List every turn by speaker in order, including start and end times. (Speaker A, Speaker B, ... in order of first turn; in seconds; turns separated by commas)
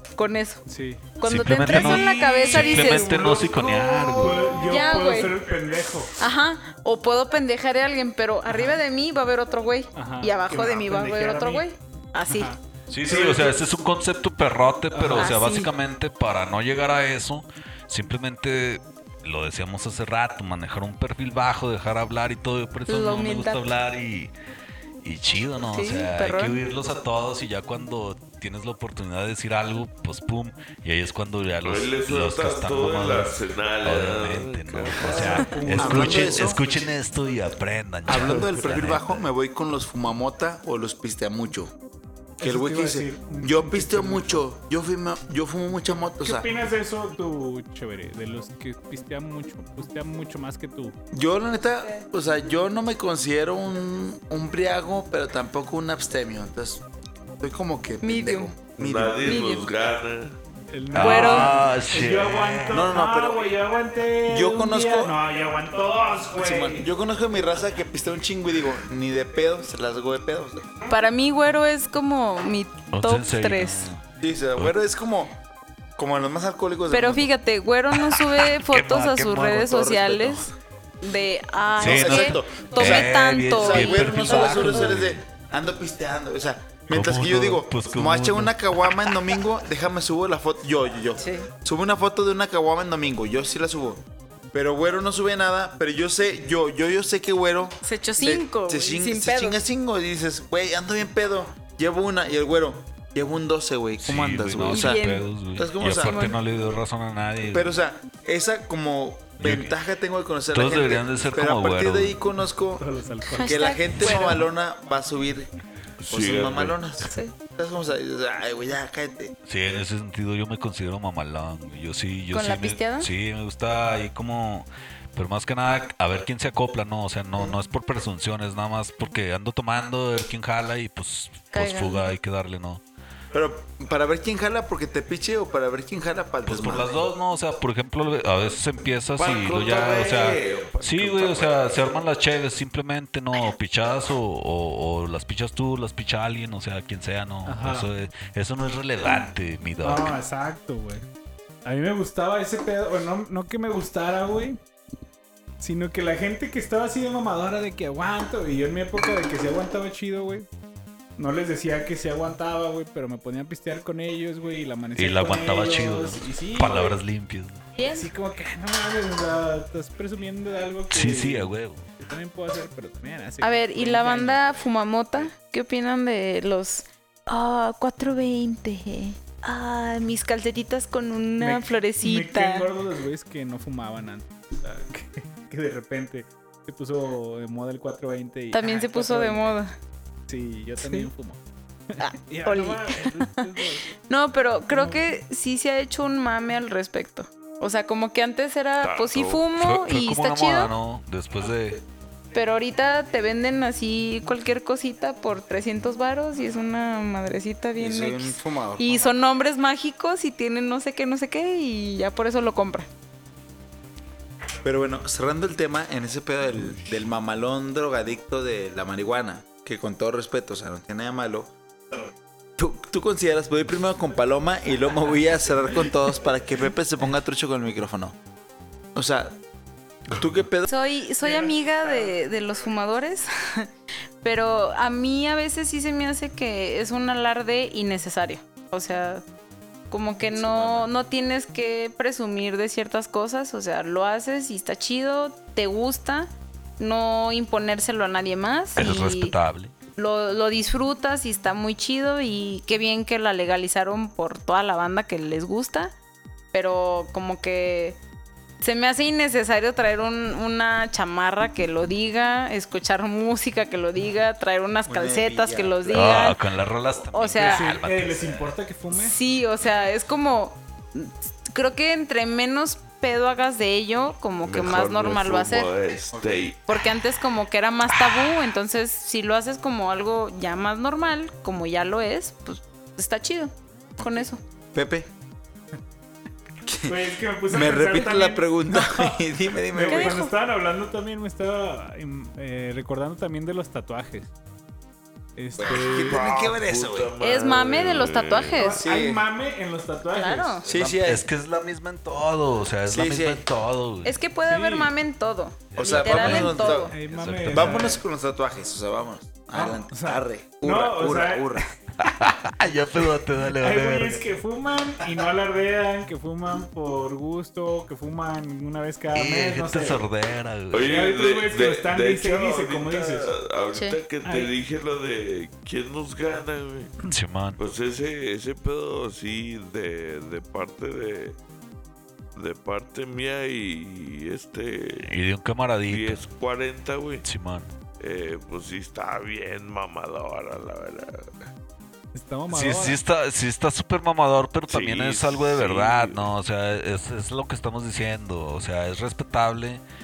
Speaker A: 0.2-0.6, Speaker B: 0.7-1.1, Speaker A: 1.2-5.4, Speaker C: 1.2-4.7, Speaker B: 1.7-3.5, Speaker B: 4.1-6.1, Speaker A: 6.2-12.5, Speaker B: 8.5-8.8, Speaker B: 9.9-11.6, Speaker B: 12.3-13.5, Speaker C: 12.9-24.3, Speaker B: 14.9-15.5, Speaker A: 15.2-15.7, Speaker A: 22.9-23.7, Speaker C: 25.0-39.2, Speaker A: 25.7-26.6, Speaker D: 31.6-35.6, Speaker B: 35.0-36.6, Speaker E: 35.7-36.6, Speaker E: 38.0-41.7, Speaker E: 42.4-46.5, Speaker B: 42.4-44.4, Speaker B: 46.2-51.0, Speaker E: 51.1-56.8, Speaker E: 57.4-59.3, Speaker A: 58.0-58.5, Speaker D: 58.8-60.4, Speaker A: 59.2-59.7, Speaker B: 60.7-66.9, Speaker C: 60.9-62.9, Speaker A: 61.0-61.6, Speaker E: 62.7-63.5, Speaker E: 64.3-65.1, Speaker E: 66.3-70.7, Speaker A: 70.9-73.9, Speaker C: 72.9-74.0, Speaker E: 74.2-75.3, Speaker E: 76.0-77.3, Speaker A: 76.9-80.5, Speaker C: 78.1-80.0, Speaker E: 79.5-80.4, Speaker A: 81.0-85.0, Speaker C: 81.8-85.2, Speaker E: 81.8-105.0, Speaker C: 86.9-88.7, Speaker A: 91.2-91.5, Speaker A: 97.8-99.6, Speaker C: 104.0-107.7, Speaker A: 104.7-105.3, Speaker E: 105.5-106.3, Speaker A: 105.8-106.4, Speaker E: 107.5-112.8, Speaker C: 109.4-109.7, Speaker C: 110.5-112.2, Speaker B: 112.8-114.3, Speaker A: 113.3-114.4, Speaker E: 113.4-115.5, Speaker D: 116.0-116.8, Speaker E: 116.1-119.3, Speaker A: 117.0-117.3, Speaker C: 119.5-132.8, Speaker A: 122.3-123.1, Speaker A: 131.5-132.1, Speaker E: 133.3-136.9, Speaker C: 136.4-150.2, Speaker D: 139.2-141.9, Speaker B: 147.4-147.9, Speaker B: 149.8-151.1, Speaker B: 151.6-154.6, Speaker B: 155.6-160.5, Speaker B: 161.2-167.0, Speaker C: 164.9-167.6, Speaker A: 167.7-168.1, Speaker B: 167.9-171.5, Speaker C: 170.9-171.8, Speaker B: 172.0-174.6, Speaker A: 173.4-182.7, Speaker B: 181.4-189.6, Speaker A: 188.5-189.7, Speaker B: 190.3-191.4, Speaker A: 190.8-191.1, Speaker B: 191.9-193.8, Speaker A: 192.0-193.4, Speaker A: 194.0-200.7, Speaker B: 194.7-195.0, Speaker D: 198.8-199.5, Speaker C: 199.6-201.8, Speaker A: 202.3-212.9, Speaker E: 207.8-209.1, Speaker E: 214.6-221.5, Speaker E: 222.6-228.2, Speaker E: 228.9-229.4, Speaker E: 230.1-230.7, Speaker A: 230.7-233.7, Speaker A: 234.2-239.2, Speaker A: 239.9-249.3, Speaker E: 240.3-240.9, Speaker C: 248.8-249.7, Speaker A: 249.9-255.9, Speaker A: 256.5-258.0, Speaker A: 258.6-266.4, Speaker E: 264.9-266.3, Speaker C: 265.9-268.6, Speaker A: 267.1-267.7, Speaker B: 267.4-269.1, Speaker A: 268.9-275.7, Speaker D: 274.4-276.6, Speaker A: 276.7-284.4, Speaker C: 278.1-278.4, Speaker E: 284.0-285.1, Speaker E: 286.6-290.2, Speaker B: 286.8-294.3, Speaker A: 289.9-290.3, Speaker B: 295.4-296.3, Speaker E: 295.6-297.1, Speaker D: 295.7-298.6, Speaker A: 297.2-298.8, Speaker B: 298.6-300.7, Speaker E: 298.6-299.2, Speaker A: 300.1-300.6, Speaker E: 300.6-301.2, Speaker C: 300.7-304.2, Speaker E: 302.9-303.5, Speaker A: 304.0-306.9, Speaker B: 304.4-304.9, Speaker C: 305.7-308.0, Speaker E: 305.8-306.9, Speaker B: 306.1-308.0, Speaker E: 307.5-311.7, Speaker B: 309.5-311.6, Speaker C: 312.0-314.2, Speaker B: 313.6-320.0, Speaker C: 319.1-321.0, Speaker D: 320.7-326.9, Speaker B: 320.8-323.3, Speaker B: 324.2-324.5, Speaker C: 327.1-327.6, Speaker D: 327.6-331.4, Speaker D: 332.3-335.1, Speaker C: 335.1-336.2, Speaker D: 335.9-337.2, Speaker C: 337.2-337.7, Speaker D: 338.0-341.4, Speaker B: 342.1-343.0, Speaker C: 342.5-349.8, Speaker D: 344.7-346.3